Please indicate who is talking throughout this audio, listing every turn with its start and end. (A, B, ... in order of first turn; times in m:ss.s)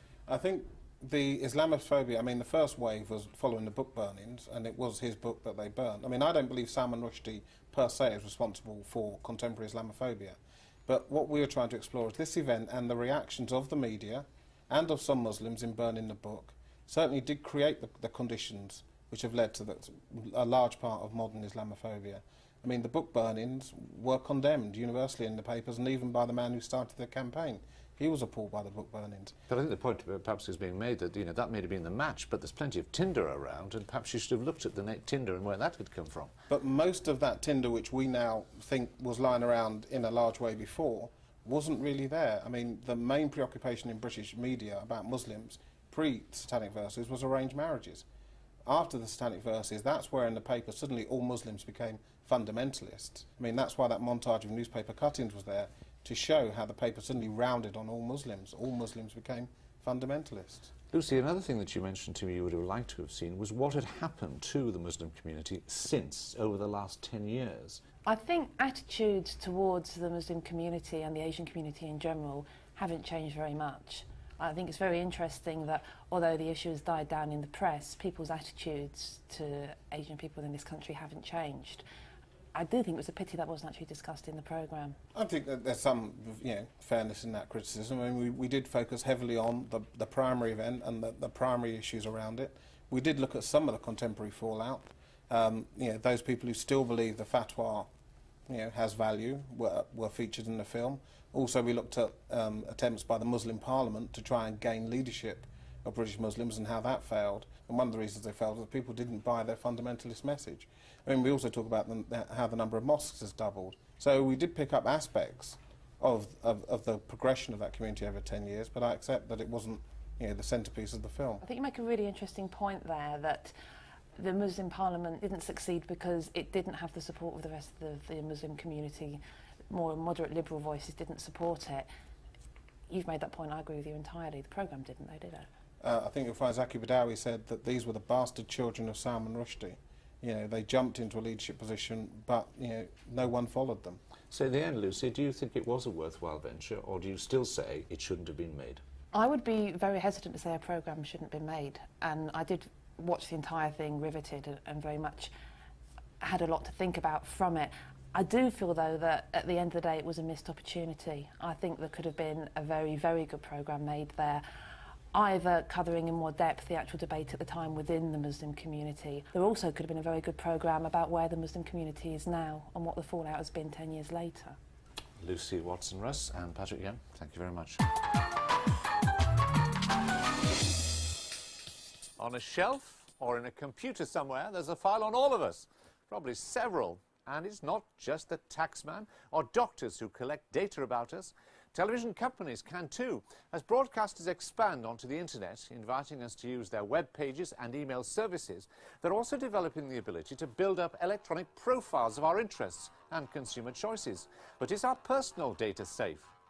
0:00.3-0:29.4 A
0:29.5-0:36.3 B
0:36.5-0:48.0 A
0:48.7-1:00.7 A
1:00.9-1:07.8 B
1:08.0-1:21.8 C
1:22.5-1:25.0 C
1:25.1-1:37.9 A
1:38.5-2:01.4 A
2:01.4-2:03.5 C
2:04.2-2:11.9 C
2:12.9-2:15.5 C
2:15.8-2:24.0 A
2:24.3-2:28.8 B
2:29.1-2:35.3 C
2:36.2-2:44.4 C
2:45.1-2:54.6 C
2:55.2-2:57.8 B
3:02.2-3:26.3 B